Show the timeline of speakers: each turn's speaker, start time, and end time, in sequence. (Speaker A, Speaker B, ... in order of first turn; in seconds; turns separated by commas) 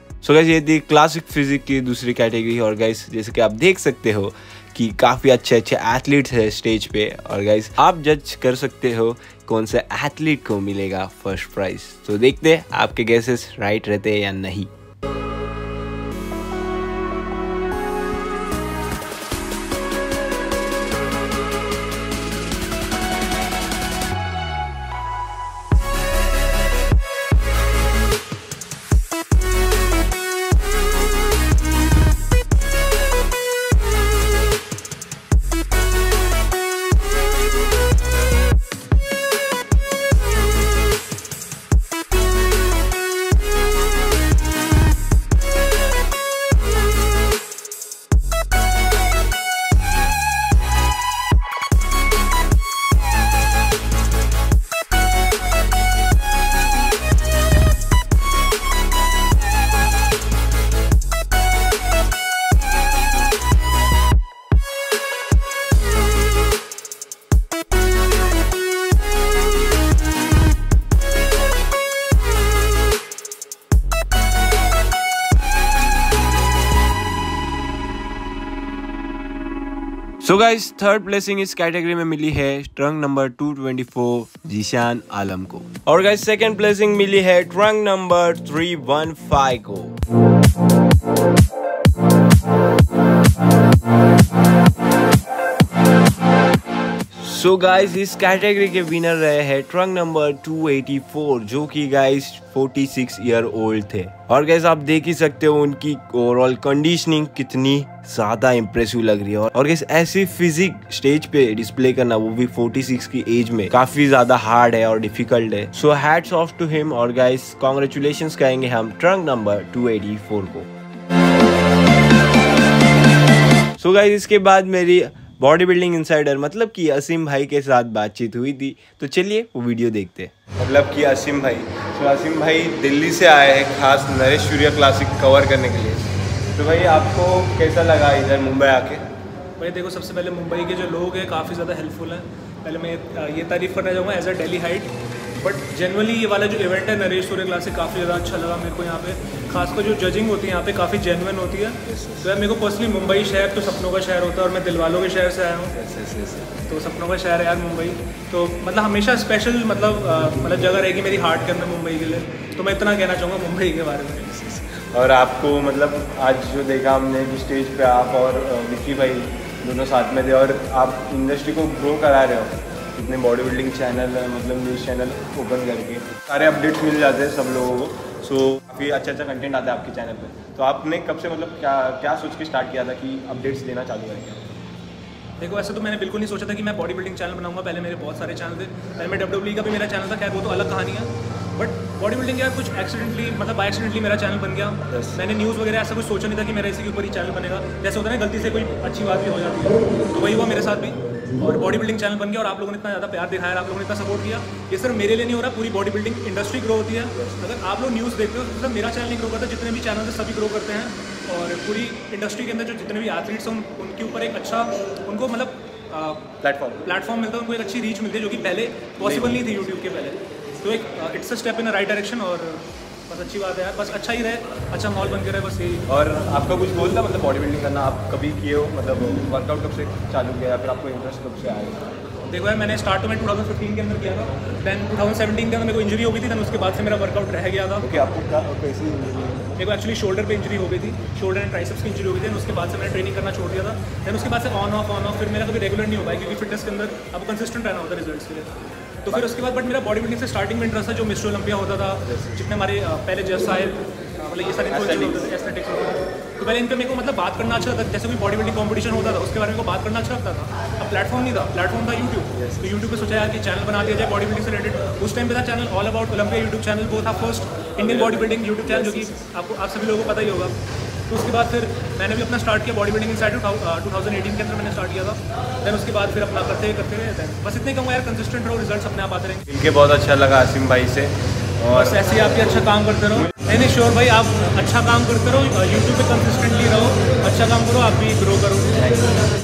Speaker A: 0.2-14.7, Speaker A: 80.2-90.0, Speaker A: 97.1-120.7, Speaker A: 123.8-139.0, Speaker B: 139.6-155.7, Speaker A: 151.8-152.3, Speaker A: 155.7-156.5, Speaker B: 156.7-164.3, Speaker A: 164.3-184.4, Speaker B: 185.4-216.3, Speaker A: 194.9-195.2, Speaker A: 216.4-216.9, Speaker B: 216.8-225.8, Speaker A: 219.0-219.6, Speaker A: 225.9-231.9, Speaker B: 232.3-237.9, Speaker A: 237.8-239.6, Speaker B: 239.6-248.5, Speaker B: 249.1-270.5, Speaker A: 252.1-252.4, Speaker A: 254.7-255.2, Speaker A: 262.4-262.8, Speaker A: 267.8-269.2, Speaker B: 271.1-279.4, Speaker A: 279.5-282.6, Speaker B: 281.7-289.0